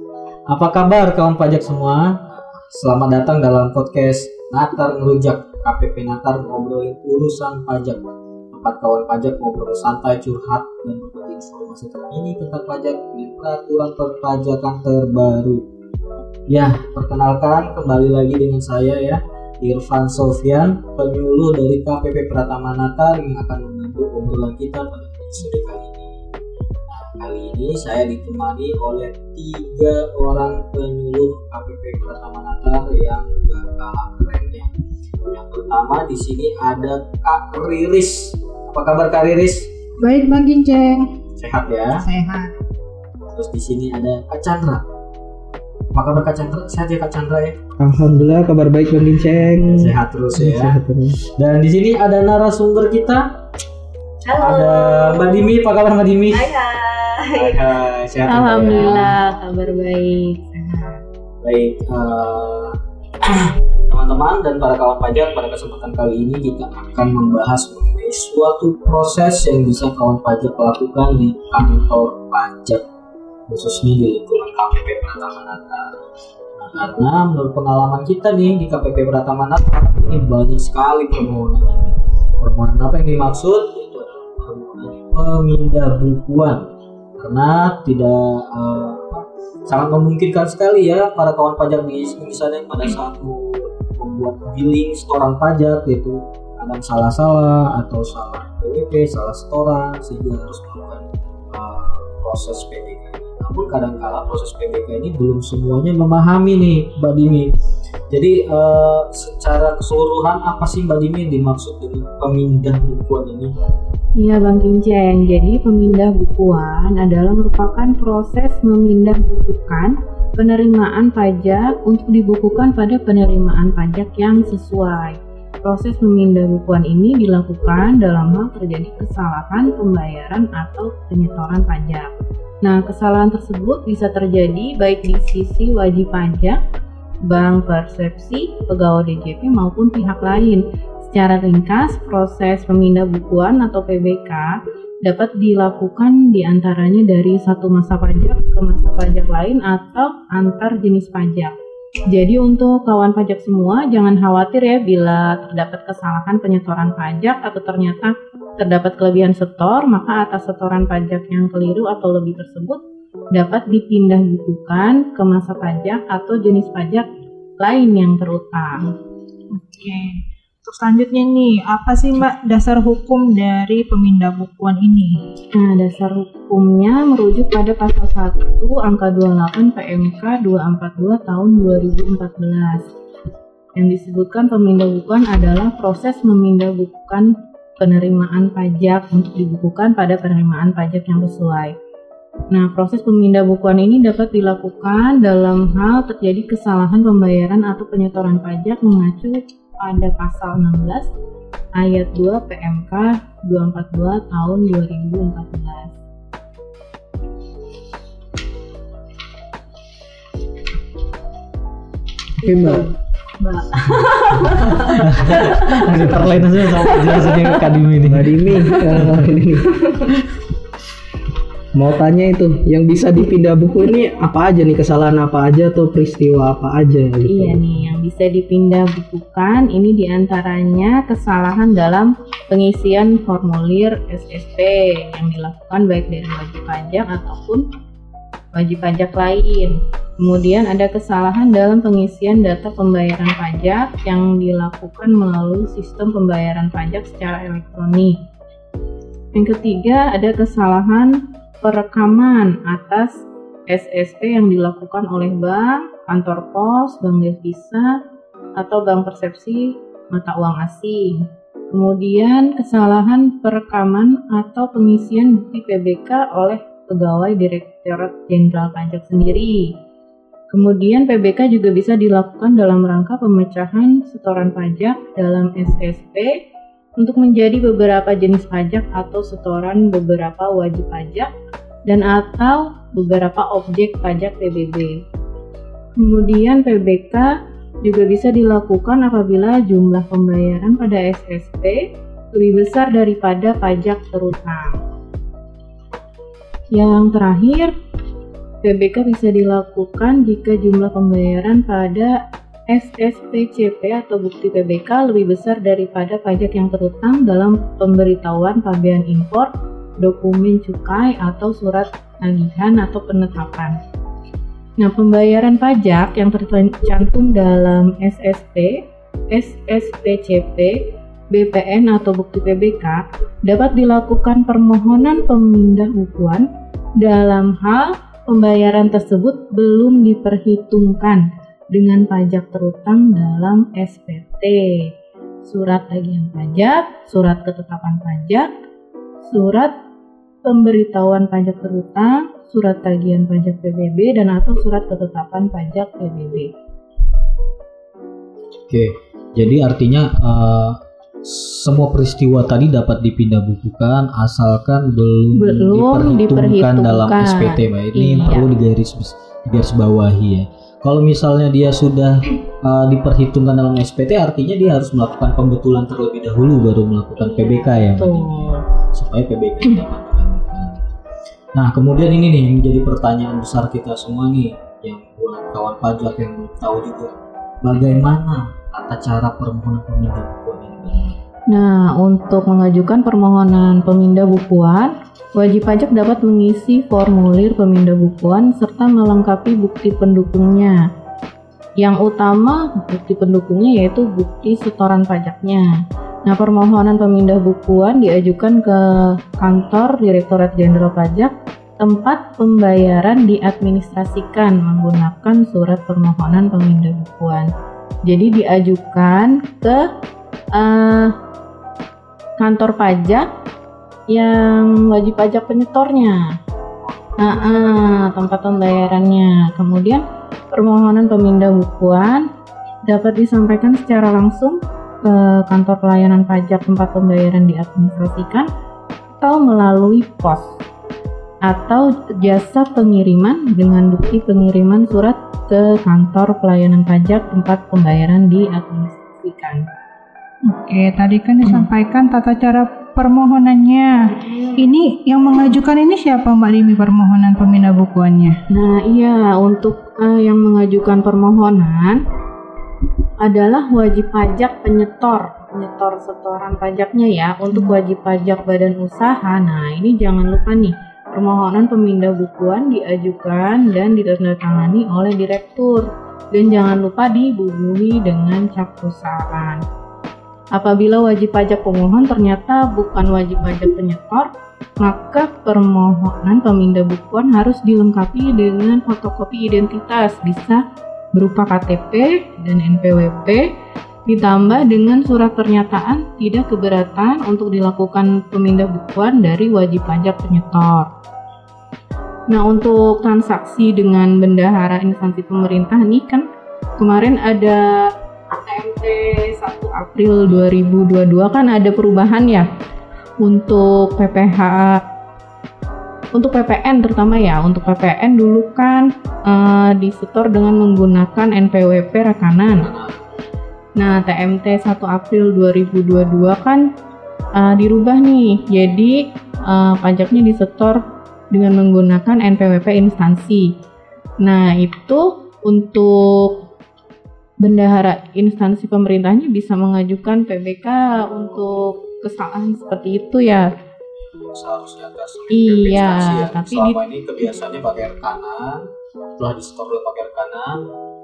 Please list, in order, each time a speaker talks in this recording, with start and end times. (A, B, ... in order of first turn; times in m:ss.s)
0:00.5-0:08.0 A
0:08.5-0:15.6 A
0:16.5-0:26.3 A
0:26.9-0:34.7 A
0:35.3-0:39.7 A
0:40.0-0:41.1 B
0:41.4-0:42.1 A
0:42.0-0:42.5 B
0:43.3-0:44.8 A
0:45.9-0:47.6 A
0:47.8-0:51.2 C
0:49.4-0:53.2 A
0:54.3-0:55.5 D
0:54.4-0:56.5 A
0:56.3-0:57.6 D
0:57.3-0:59.2 A
0:58.3-1:01.0 D
1:01.4-1:12.8 A
1:13.5-1:16.0 A
1:16.6-1:26.6 A
1:27.2-1:47.5 A
1:48.1-1:53.5 A
1:54.2-2:12.1 D
2:12.6-2:16.6 D
2:17.3-2:31.6 D
2:32.1-2:42.8 D
2:43.3-2:47.1 D
2:47.6-2:48.8 D
2:49.5-2:55.2 B
2:55.5-3:02.9 D
3:03.8-3:11.8 D
3:12.5-3:21.1 D
3:21.8-3:26.0 D
3:32.4-3:32.9 C
3:32.4-3:35.9 D
3:35.0-3:39.3 A
3:36.8-3:37.3 D
3:38.0-3:40.1 C
3:41.8-3:47.7 C
3:47.2-3:57.6 D
3:58.5-4:08.2 D
4:09.4-4:13.1 D
4:13.7-4:18.0 D
4:18.6-4:21.2 D
4:21.7-4:29.6 D
4:30.5-4:36.3 D
4:37.0-4:41.3 D
4:41.9-4:45.0 D
4:46.0-4:47.3 D
4:47.8-4:51.8 D
4:52.3-4:54.8 D
4:56.7-4:57.7 D
4:58.6-5:02.2 D
5:02.7-5:13.8 D
5:14.8-5:18.8 D
5:19.3-5:20.8 D
5:21.3-5:26.5 D
5:27.0-5:34.9 D
5:35.4-5:38.5 D
5:39.2-5:39.7 D
5:40.4-5:46.5 D
5:48.7-6:10.8 A
5:55.3-5:58.5 D
6:07.2-6:08.6 D
6:11.6-6:21.2 A
6:21.5-6:30.8 D
6:31.8-6:35.6 D
6:36.3-6:47.5 D
6:48.1-6:49.8 D
6:50.6-6:51.1 D
6:52.4-6:53.3 D
6:54.1-6:56.2 D
6:56.9-6:59.0 A
6:57.2-7:00.0 D
7:00.5-7:02.2 D
7:02.9-7:08.5 D
7:09.2-7:10.6 D
7:11.5-7:19.6 D
7:20.5-7:28.4 B
7:28.5-7:32.0 D
7:33.2-7:49.6 D
7:50.6-7:54.3 D
7:54.8-8:00.6 D
8:01.2-8:03.4 D
8:04.1-8:10.9 D
8:12.3-8:16.2 D
8:16.8-8:22.5 D
8:23.2-8:24.8 D
8:26.2-8:32.7 D
8:32.5-8:33.0 A
8:33.8-8:36.6 D
8:37.4-8:39.0 D
8:39.5-8:40.8 D
8:41.3-8:43.4 D
8:44.2-8:46.4 D
8:47.4-8:53.5 D
8:54.3-8:58.6 A
8:55.3-8:56.8 D
8:59.2-9:00.6 A